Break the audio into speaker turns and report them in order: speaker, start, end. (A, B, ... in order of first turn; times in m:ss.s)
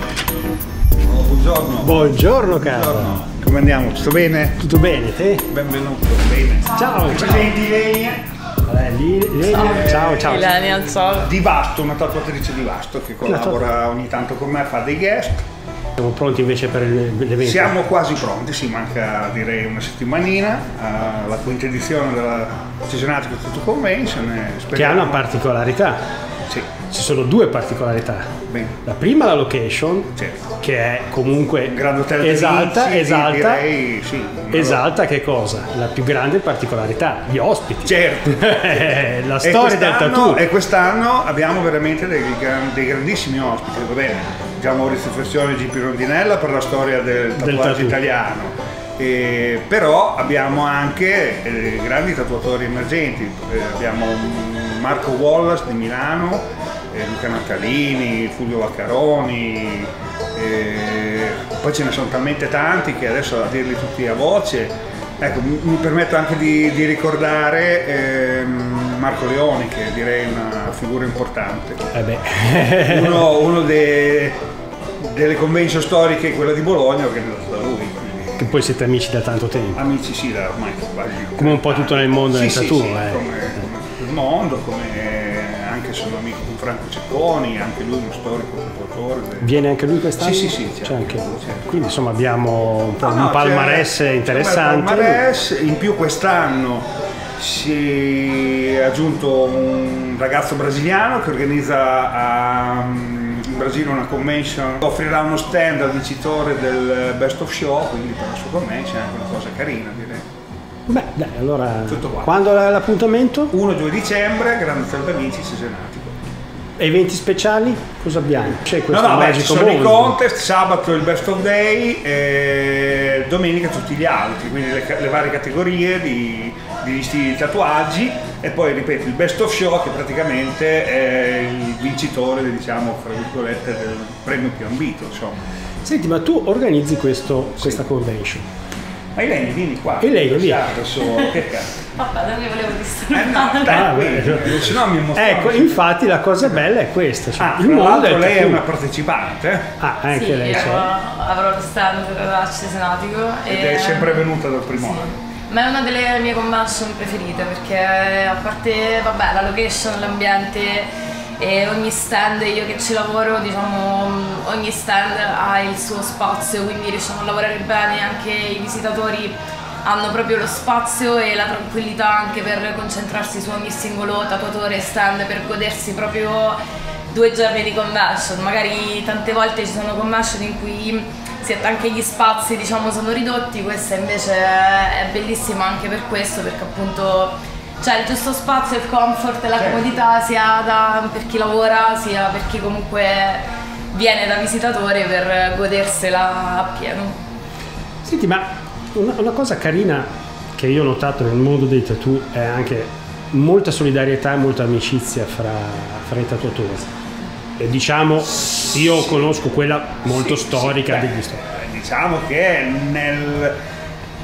0:01.0-0:01.9 A
0:01.8-0:03.2 B
0:02.5-0:04.6 A
0:04.6-0:05.4 B
0:05.5-0:08.2 A
0:06.7-0:07.5 B
0:08.6-0:10.6 B
0:09.5-0:11.3 C
0:09.5-0:10.5 A
0:11.2-0:15.4 A
0:13.2-0:13.7 B
0:16.0-0:17.8 B
0:17.4-0:25.4 A
0:24.7-0:26.0 B
0:26.9-0:28.3 B
0:28.5-0:28.8 A
0:28.8-0:33.6 B
0:30.2-0:30.5 A
0:31.7-0:34.9 A
0:34.5-0:40.4 B
0:37.8-1:11.8 A
0:47.4-0:48.0 B
1:11.9-1:13.3 B
1:12.8-1:14.4 A
1:15.0-1:18.5 A
1:18.4-1:19.8 B
1:19.8-1:29.6 A
1:21.4-1:23.2 B
1:29.4-1:35.2 B
1:30.2-1:31.7 A
1:33.0-1:50.2 A
1:50.9-1:53.5 B
1:51.9-1:52.4 A
1:53.5-1:56.2 A
1:56.8-2:00.2 B
1:58.9-2:15.4 A
2:15.8-2:18.4 B
2:17.6-2:17.8 A
2:19.1-2:21.7 A
2:20.0-2:20.7 B
2:21.0-2:21.4 C
2:22.0-2:23.9 C
2:23.1-2:25.8 A
2:23.7-2:28.6 B
2:27.4-2:29.8 A
2:29.8-2:30.9 B
2:30.1-2:40.9 C
2:33.5-2:35.1 A
2:41.4-2:56.6 C
2:57.1-3:17.2 C
3:18.0-3:26.9 B
3:27.6-3:31.4 B
3:28.7-3:29.3 A
3:30.0-3:33.6 A